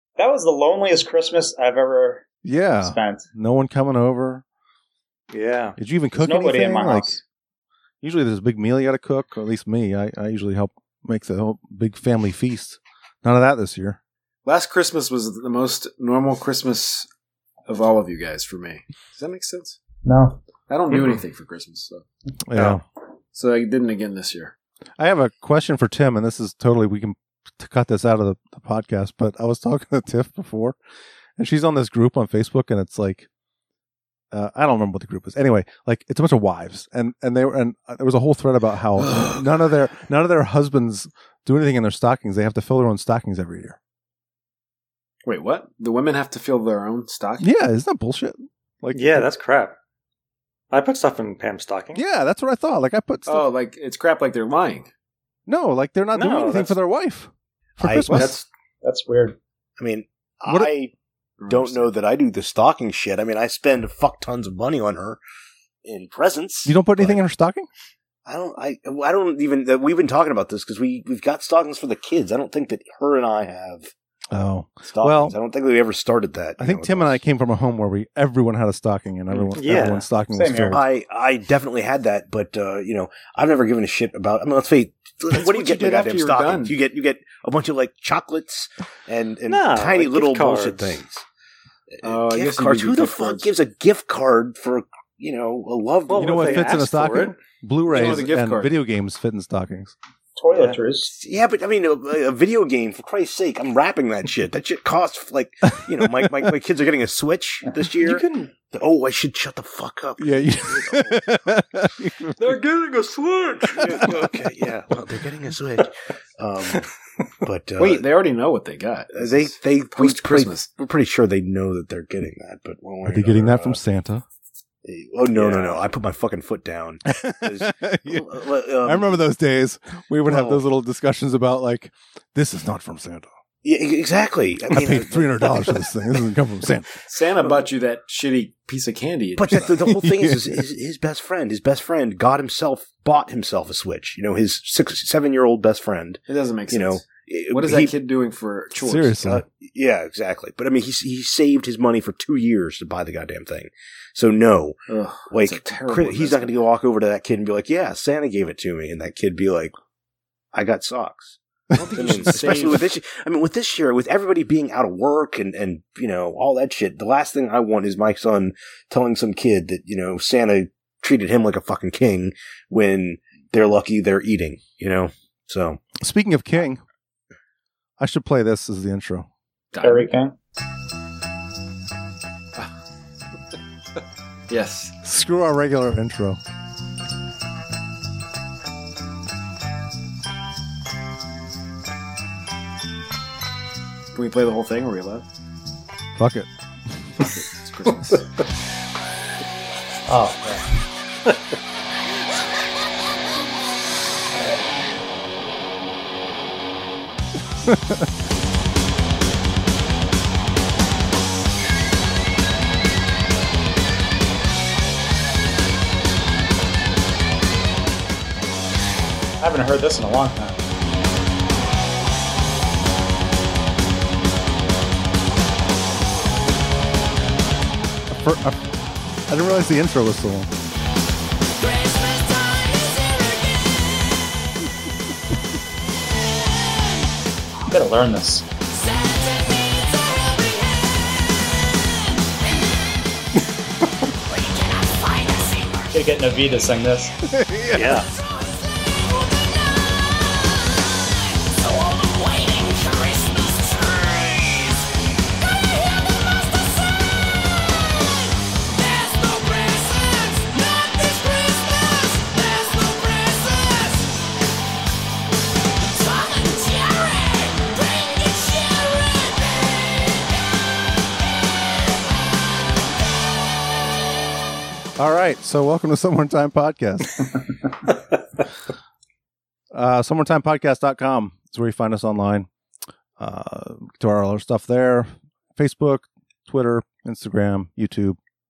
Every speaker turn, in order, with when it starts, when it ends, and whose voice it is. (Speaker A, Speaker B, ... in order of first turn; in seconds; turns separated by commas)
Speaker A: 0.2-2.2, Speaker B: 2.4-4.4, Speaker A: 2.8-3.3, Speaker C: 5.3-5.8, Speaker B: 5.8-7.2, Speaker A: 6.2-7.2, Speaker B: 8.0-14.0, Speaker D: 14.4-17.1, Speaker D: 17.7-19.8, Speaker A: 20.1-20.4, Speaker D: 20.7-22.0, Speaker B: 22.5-22.8, Speaker D: 23.3-24.5, Speaker B: 25.0-30.8, Speaker B: 31.4-33.3, Speaker B: 34.3-43.8, Speaker D: 39.0-39.7, Speaker D: 45.2-47.5, Speaker B: 47.4-49.3, Speaker C: 48.9-49.8, Speaker C: 50.7-52.0, Speaker B: 52.0-53.5, Speaker D: 53.3-54.9, Speaker B: 55.5-58.5, Speaker C: 56.1-56.8, Speaker E: 57.8-58.3, Speaker A: 58.8-59.4, Speaker E: 59.8-60.9, Speaker D: 61.4-61.9, Speaker E: 61.5-65.2, Speaker E: 65.8-67.2, Speaker B: 66.7-67.7, Speaker E: 68.3-73.9, Speaker B: 74.3-75.4, Speaker E: 74.9-77.2, Speaker B: 76.6-80.8, Speaker C: 79.5-80.1, Speaker A: 80.3-80.8, Speaker E: 80.7-91.2, Speaker D: 85.3-86.8, Speaker C: 89.5-91.0, Speaker E: 92.0-96.7, Speaker D: 92.0-93.5, Speaker C: 96.1-97.4, Speaker B: 96.1-100.0, Speaker D: 97.9-98.8, Speaker A: 100.4-101.1, Speaker C: 100.5-100.8, Speaker E: 101.1-111.2, Speaker C: 108.0-108.5, Speaker B: 110.2-112.4, Speaker C: 112.4-114.0, Speaker E: 113.6-116.9, Speaker E: 117.4-118.1, Speaker D: 117.8-120.7, Speaker E: 119.1-123.8, Speaker B: 123.0-124.2, Speaker E: 124.8-129.2, Speaker B: 127.1-133.3, Speaker E: 130.2-130.7, Speaker E: 133.6-135.9, Speaker B: 134.7-137.0, Speaker D: 137.1-139.7, Speaker E: 139.4-148.0, Speaker B: 139.9-140.4, Speaker D: 146.3-149.4, Speaker B: 148.8-149.4, Speaker E: 149.5-154.8, Speaker D: 154.9-156.5, Speaker E: 155.3-159.8, Speaker E: 160.5-161.4, Speaker D: 161.8-162.9, Speaker E: 161.9-175.8, Speaker B: 176.0-176.8, Speaker B: 178.0-179.3, Speaker D: 179.7-180.1, Speaker A: 179.8-180.3, Speaker D: 184.5-185.0, Speaker B: 185.0-186.4, Speaker D: 194.1-195.2, Speaker B: 196.2-196.5, Speaker D: 197.2-198.3, Speaker A: 200.1-200.6, Speaker B: 207.7-208.0, Speaker A: 219.4-220.6, Speaker B: 228.1-228.6, Speaker B: 229.3-230.5, Speaker F: 231.6-233.7, Speaker A: 237.7-238.4, Speaker F: 238.7-241.0, Speaker F: 244.3-245.9, Speaker A: 245.9-247.1, Speaker B: 247.3-248.0, Speaker C: 247.7-248.1, Speaker F: 248.4-250.0, Speaker F: 251.4-255.0, Speaker F: 255.6-257.3, Speaker F: 258.6-264.2, Speaker F: 265.9-270.1, Speaker B: 275.0-277.4, Speaker B: 279.7-282.5, Speaker B: 283.2-288.2